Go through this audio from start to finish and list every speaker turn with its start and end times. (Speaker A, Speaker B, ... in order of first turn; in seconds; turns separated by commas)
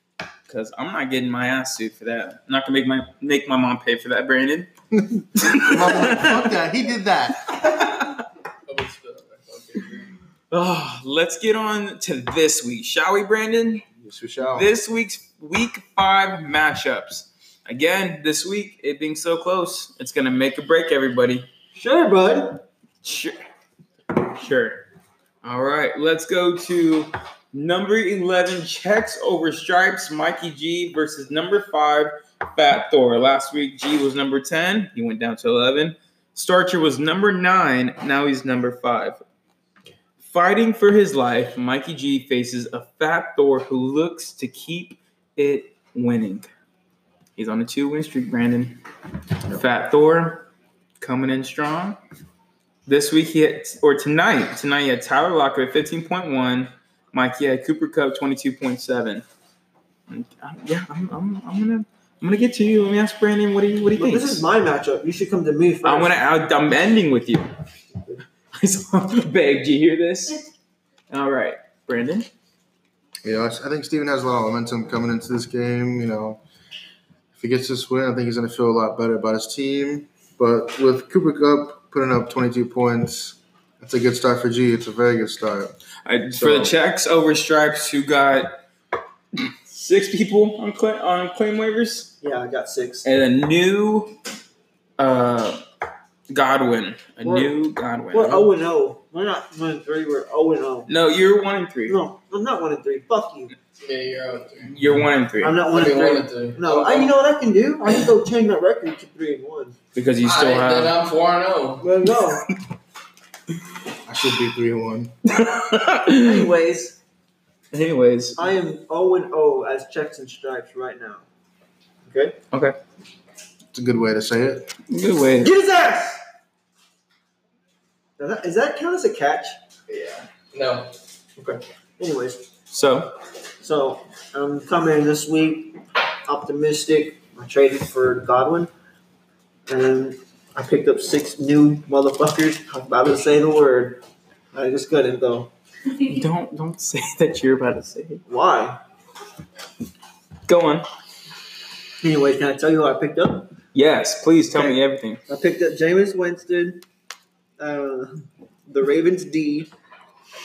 Speaker A: 0.5-4.7, Speaker A: 5.3-6.5, Speaker B: 5.5-8.0, Speaker C: 8.7-10.1, Speaker A: 10.5-13.8, Speaker B: 14.0-14.7, Speaker A: 14.5-21.5, Speaker D: 21.7-22.6, Speaker A: 23.0-23.4, Speaker A: 24.1-24.8, Speaker A: 25.4-39.2, Speaker A: 40.2-46.5, Speaker A: 47.4-48.8, Speaker A: 49.5-50.5, Speaker A: 51.0-52.0, Speaker A: 52.9-59.2, Speaker A: 60.1-64.4, Speaker D: 64.0-66.2, Speaker A: 65.8-67.5, Speaker A: 68.5-70.4, Speaker A: 71.1-72.3, Speaker B: 73.2-76.4, Speaker B: 77.3-85.7, Speaker A: 86.0-88.6, Speaker B: 86.3-86.7, Speaker A: 89.3-92.1, Speaker D: 92.2-93.0, Speaker A: 93.0-94.2, Speaker A: 95.0-95.6, Speaker A: 96.3-98.5, Speaker D: 97.2-97.5, Speaker D: 98.1-100.9, Speaker A: 100.9-102.0, Speaker D: 101.9-103.5, Speaker C: 103.8-104.7, Speaker A: 104.7-105.6, Speaker D: 105.4-109.7, Speaker C: 105.7-107.1, Speaker A: 109.9-111.0, Speaker C: 110.2-111.9, Speaker D: 111.8-112.5, Speaker B: 114.0-115.1, Speaker A: 115.2-116.5, Speaker D: 116.0-117.0, Speaker A: 117.7-118.5, Speaker D: 118.4-121.2, Speaker D: 122.0-122.4, Speaker B: 123.7-124.7, Speaker A: 124.9-125.5, Speaker D: 125.4-126.2, Speaker D: 128.2-129.6, Speaker C: 129.9-130.9, Speaker D: 132.0-132.4, Speaker A: 132.7-133.1, Speaker D: 133.6-138.7, Speaker D: 139.7-144.0, Speaker D: 144.5-145.5, Speaker A: 145.9-148.2, Speaker D: 148.3-148.8, Speaker A: 150.5-150.8, Speaker D: 152.0-153.5, Speaker A: 153.7-155.2, Speaker D: 154.5-156.8, Speaker D: 157.6-159.7